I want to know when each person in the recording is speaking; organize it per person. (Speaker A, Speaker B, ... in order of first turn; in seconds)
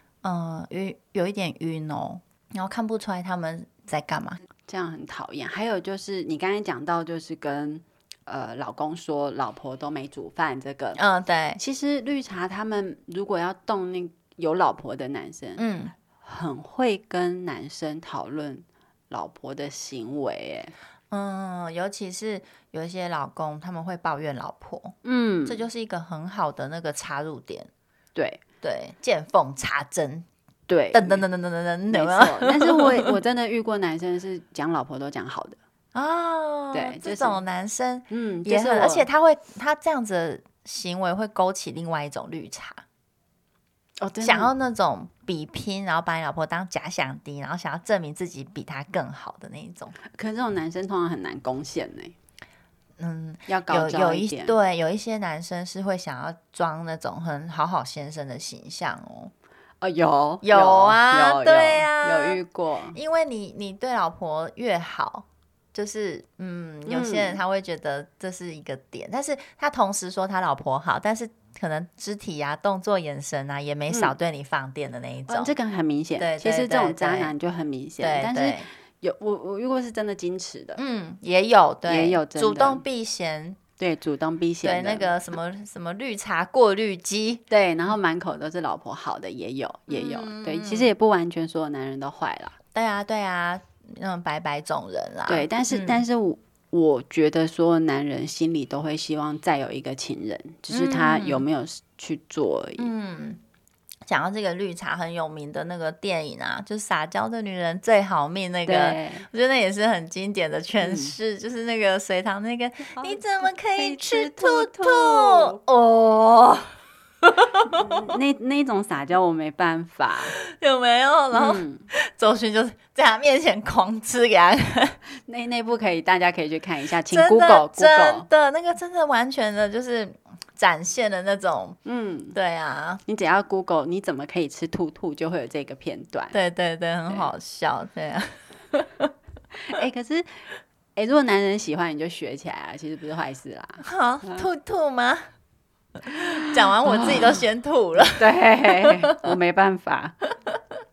Speaker A: 0.2-4.4, 11.0-11.6, 15.6-15.9, 21.1-24.9, 25.5-27.7, 28.6-30.3, 30.9-33.1, 35.9-42.8, 44.2-50.0, 53.0-59.3, 60.4-62.4, 62.9-75.5, 76.2-77.3, 78.0-78.7, 80.8-83.6, 84.6-87.4, 89.9-90.9, 92.7-96.0, 100.7-101.5, 102.8-103.4, 104.1-116.7, 117.2-118.0, 120.4-125.0, 127.1-131.8, 132.3-133.0, 136.3-139.1, 143.8-145.3, 146.0-149.3
Speaker B: 4.7-11.0, 11.6-15.7, 16.2-20.7, 25.0-25.6, 28.1-28.4, 30.7-31.2, 31.9-35.6, 36.7-37.4, 38.1-39.1, 44.0-44.5, 50.1-52.1, 53.5-54.5, 59.8-63.0, 66.9-67.4, 73.9-74.2, 75.3-80.8, 81.9-82.8, 83.8-85.1, 87.5-92.6, 95.3-102.9, 108.7-109.3, 110.8-111.2, 112.9-115.6, 117.7-120.4, 121.3-121.9, 125.3-128.3, 131.8-132.4, 133.1-136.4, 139.6-144.4, 146.4-147.4, 148.2-150.2